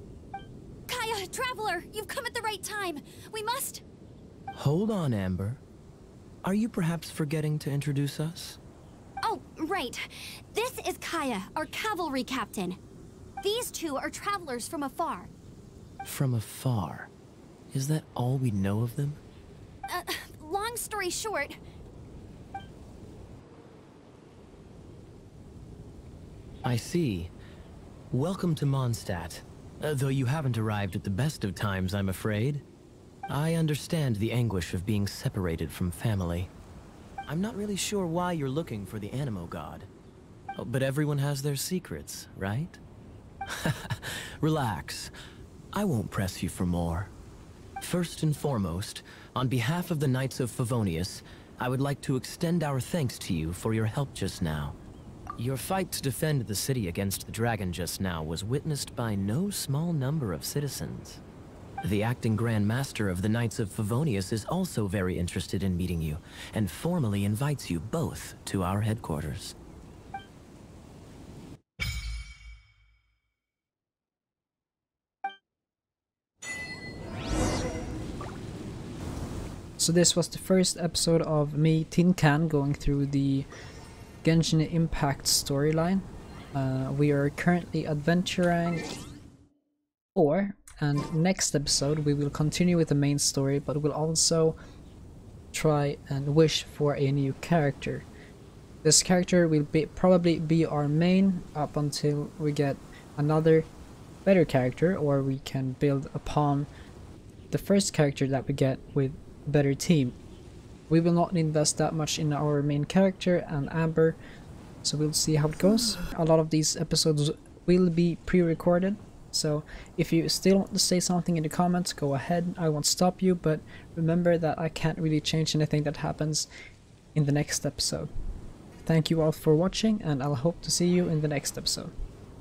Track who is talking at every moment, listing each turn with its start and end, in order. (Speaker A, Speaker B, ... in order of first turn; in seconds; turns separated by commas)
Speaker A: 0.9-3.8, Speaker B: 4.5-5.6, Speaker B: 6.4-8.6, Speaker A: 9.2-12.8, Speaker A: 13.4-15.3, Speaker B: 16.0-17.1, Speaker B: 17.7-19.2, Speaker A: 19.9-21.6, Speaker B: 26.6-27.3, Speaker B: 28.1-32.6, Speaker B: 33.3-36.5, Speaker B: 37.3-39.9, Speaker B: 40.6-42.8, Speaker B: 43.5-45.1, Speaker B: 45.7-47.1, Speaker B: 47.8-54.8, Speaker B: 55.4-61.2, Speaker B: 61.8-69.6, Speaker C: 79.8-83.5, Speaker C: 84.2-88.9, Speaker C: 90.2-94.6, Speaker C: 95.5-98.1, Speaker C: 98.8-103.7, Speaker C: 104.2-106.7, Speaker C: 107.5-110.2, Speaker C: 110.9-114.2, Speaker C: 114.8-126.5, Speaker C: 127.2-128.1, Speaker C: 128.9-131.9